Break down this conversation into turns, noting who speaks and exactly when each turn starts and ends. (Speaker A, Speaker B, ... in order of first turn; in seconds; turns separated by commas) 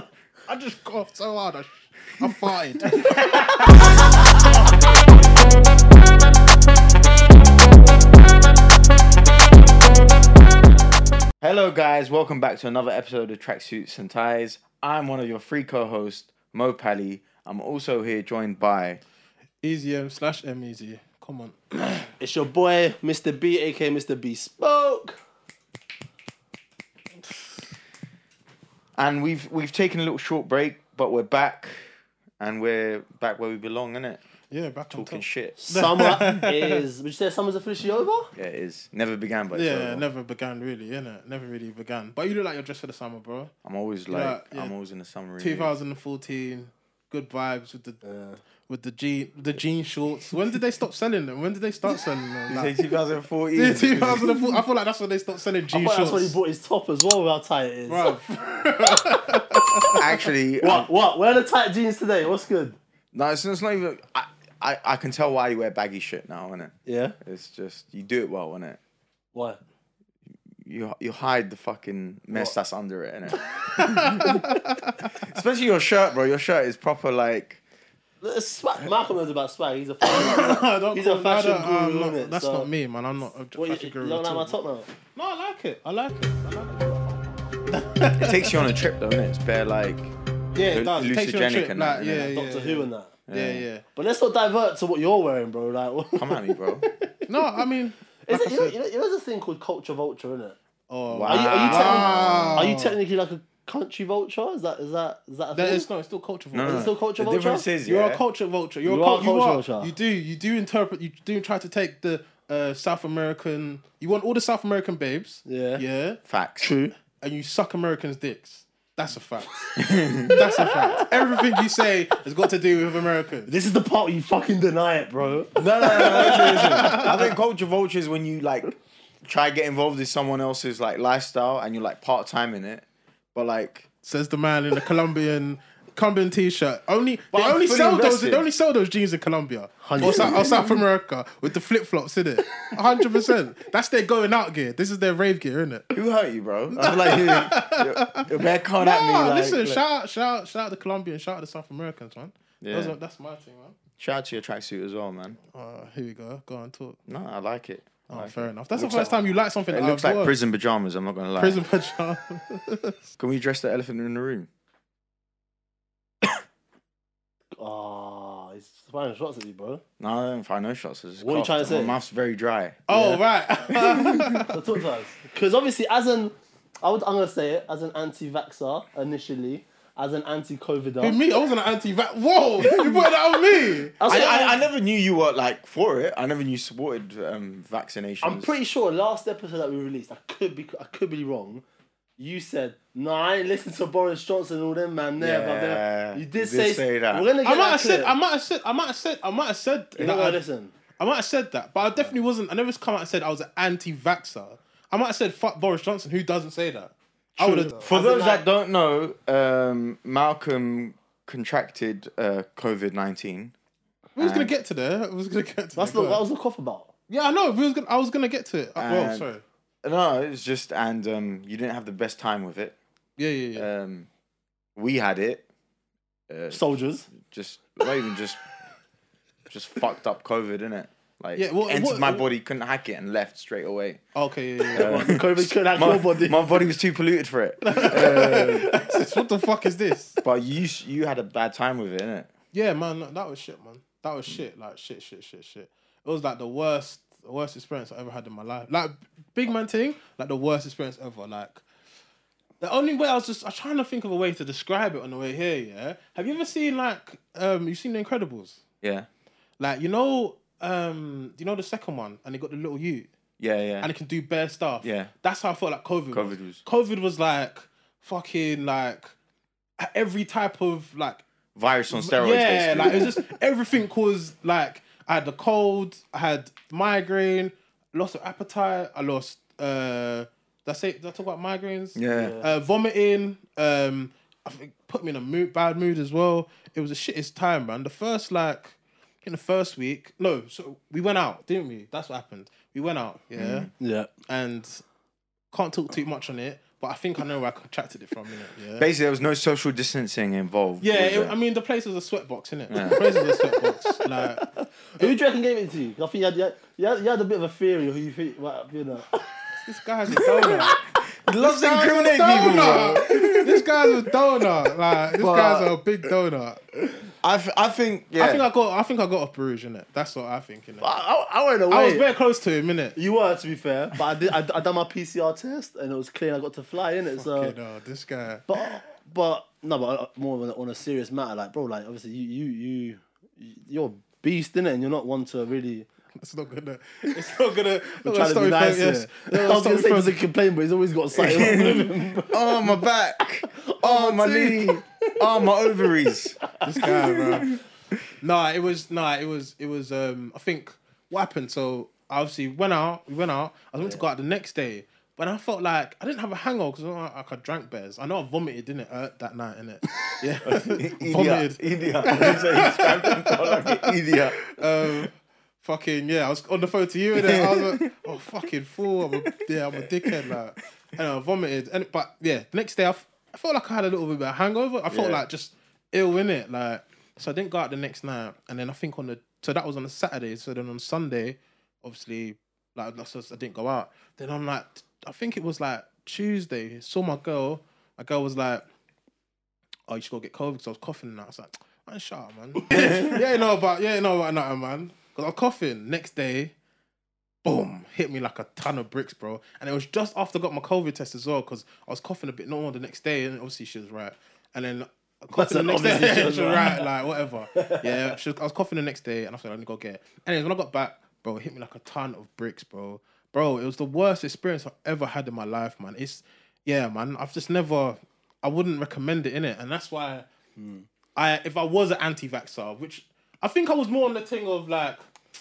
Speaker A: 0.5-3.2, Speaker B: 3.2-3.7, Speaker C: 11.4-19.0, Speaker A: 19.6-22.1, Speaker B: 22.2-25.2, Speaker C: 28.9-31.9, Speaker C: 32.4-34.2, Speaker A: 34.5-36.8, Speaker C: 34.9-35.6, Speaker B: 35.6-38.3, Speaker C: 38.4-40.0, Speaker A: 39.5-43.5, Speaker C: 43.6-45.7, Speaker A: 44.1-44.7, Speaker A: 45.4-48.0, Speaker B: 48.0-48.4, Speaker A: 48.7-52.7, Speaker C: 52.5-54.3, Speaker A: 53.5-56.4, Speaker B: 55.7-59.9, Speaker A: 57.9-60.2, Speaker C: 60.0-60.9, Speaker B: 60.6-62.8, Speaker C: 63.1-68.8, Speaker B: 66.8-67.2, Speaker B: 69.3-69.6, Speaker C: 70.6-74.3, Speaker A: 73.7-75.0, Speaker C: 75.0-77.6, Speaker B: 78.2-82.7, Speaker A: 80.0-84.5, Speaker B: 83.5-84.9, Speaker A: 85.1-86.7, Speaker B: 86.5-87.7, Speaker A: 87.7-88.6, Speaker C: 88.1-90.1, Speaker A: 90.5-93.8, Speaker C: 90.7-92.3, Speaker B: 92.2-93.1, Speaker C: 93.3-93.6, Speaker B: 93.9-97.7, Speaker C: 96.1-96.8, Speaker A: 97.3-98.8, Speaker B: 98.2-100.6, Speaker A: 100.9-103.0, Speaker C: 101.1-102.7, Speaker B: 101.3-105.9, Speaker A: 105.5-106.9, Speaker C: 106.5-108.2, Speaker B: 106.7-107.7, Speaker A: 107.8-116.2, Speaker B: 108.8-109.9, Speaker B: 115.5-115.8, Speaker C: 116.3-116.7, Speaker B: 116.6-117.0, Speaker A: 117.2-119.7, Speaker C: 119.8-120.4, Speaker A: 120.3-123.5, Speaker B: 121.0-121.4, Speaker B: 123.5-127.2, Speaker C: 125.6-128.7, Speaker A: 126.0-127.1, Speaker C: 129.2-133.8, Speaker A: 134.0-145.9, Speaker C: 137.3-138.4, Speaker B: 139.8-140.8, Speaker C: 140.0-140.6, Speaker C: 145.9-149.8, Speaker A: 146.7-153.8, Speaker C: 152.6-152.9, Speaker C: 154.0-155.4, Speaker A: 155.5-157.0, Speaker C: 157.1-161.6, Speaker A: 158.1-160.3, Speaker A: 161.4-163.0, Speaker C: 163.2-164.5, Speaker B: 167.6-169.8, Speaker C: 170.0-172.8, Speaker B: 171.2-171.9, Speaker A: 172.9-174.6, Speaker B: 172.9-173.2, Speaker C: 173.8-174.3, Speaker B: 174.5-181.2, Speaker A: 181.0-183.9, Speaker B: 182.6-183.1, Speaker B: 183.9-184.6, Speaker C: 184.0-188.5, Speaker B: 188.2-191.6, Speaker B: 192.2-198.1, Speaker C: 195.2-197.3, Speaker A: 197.4-200.4, Speaker B: 200.0-200.7, Speaker A: 201.0-207.9, Speaker B: 207.3-208.4, Speaker C: 207.8-213.5, Speaker A: 214.2-216.2, Speaker C: 214.2-214.5, Speaker B: 215.7-216.9, Speaker A: 217.1-219.4, Speaker C: 218.8-219.3, Speaker C: 219.8-222.7, Speaker A: 223.2-223.7, Speaker C: 223.5-224.1, Speaker C: 224.8-225.4, Speaker C: 226.3-228.4, Speaker B: 226.5-227.1, Speaker C: 229.5-234.0, Speaker A: 231.3-232.2, Speaker A: 234.1-235.0, Speaker B: 234.7-236.6, Speaker C: 234.7-238.8, Speaker A: 237.6-240.2, Speaker C: 240.2-242.3, Speaker A: 242.5-251.6, Speaker A: 252.6-258.6, Speaker C: 258.8-259.1, Speaker A: 259.6-263.1, Speaker C: 263.4-263.9, Speaker A: 263.8-269.1, Speaker C: 264.8-265.1, Speaker C: 266.1-266.6, Speaker A: 269.8-271.2, Speaker C: 271.6-273.2, Speaker A: 271.9-293.7, Speaker C: 281.9-282.4, Speaker B: 282.1-282.5, Speaker C: 293.4-293.7, Speaker B: 293.8-294.1, Speaker A: 294.2-294.8, Speaker A: 295.5-298.9, Speaker C: 298.8-301.4, Speaker A: 300.8-304.5, Speaker C: 302.7-303.0, Speaker B: 303.5-309.2, Speaker A: 309.6-310.8, Speaker C: 310.6-313.7, Speaker A: 311.4-316.6, Speaker C: 315.1-315.7, Speaker C: 317.2-318.4, Speaker A: 318.1-320.9, Speaker B: 320.8-322.1, Speaker A: 321.7-323.0, Speaker B: 322.9-327.5, Speaker A: 327.1-328.5, Speaker B: 328.5-335.9, Speaker A: 336.1-340.2, Speaker B: 337.9-342.8, Speaker C: 341.1-347.6, Speaker B: 343.4-345.9, Speaker B: 346.4-346.9, Speaker A: 346.6-347.6, Speaker A: 348.2-388.6, Speaker C: 360.4-364.4, Speaker C: 367.1-368.0, Speaker C: 369.3-370.1, Speaker C: 374.9-375.2, Speaker A: 389.9-396.5, Speaker A: 397.4-420.2, Speaker B: 405.3-406.9, Speaker B: 407.5-408.1, Speaker B: 420.6-420.9, Speaker A: 421.1-425.0